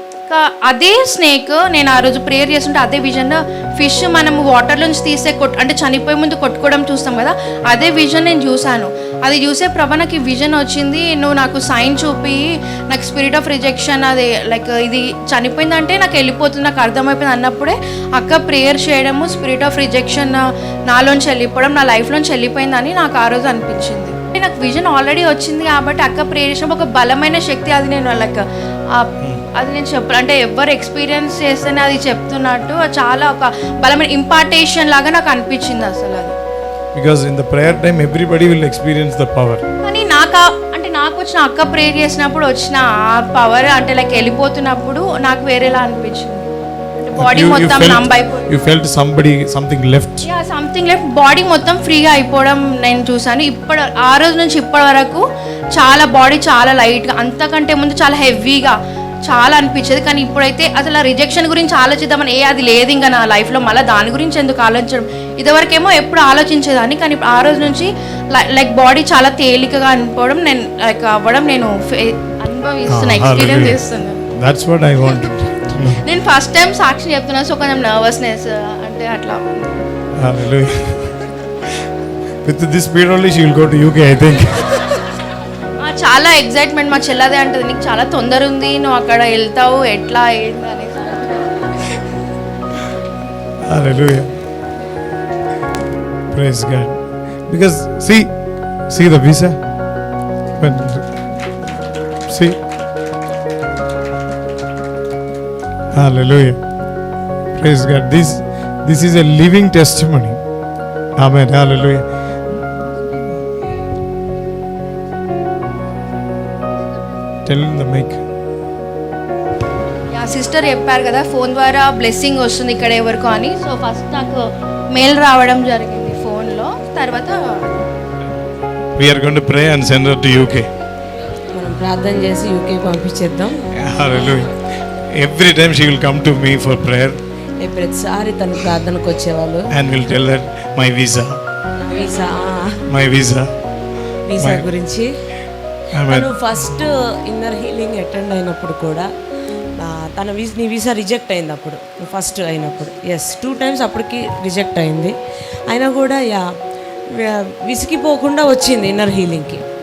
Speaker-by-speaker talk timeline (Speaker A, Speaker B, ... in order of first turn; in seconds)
Speaker A: 0.3-28.4, 29.0-36.4, 39.8-46.5, 47.0-48.6, 50.2-74.2, 76.0-79.4, 85.8-91.4, 120.2-127.8
Speaker B: 36.9-39.6, 47.2-50.3, 72.9-73.8, 74.3-76.0, 80.2-81.1, 82.5-84.7, 93.7-94.3, 96.3-98.3, 98.9-99.6, 100.6-101.1, 102.3-102.6, 105.9-106.6, 107.5-110.4, 111.2-112.1, 117.5-118.2, 129.0-130.7, 133.7-134.5, 135.1-137.2, 139.7-141.4, 142.9-143.5, 144.4-144.7, 145.9-146.4
Speaker C: 131.6-133.7, 137.6-139.7, 141.8-142.8, 144.3-145.1, 146.1-149.1, 149.8-155.2, 155.7-156.4, 157.1-159.6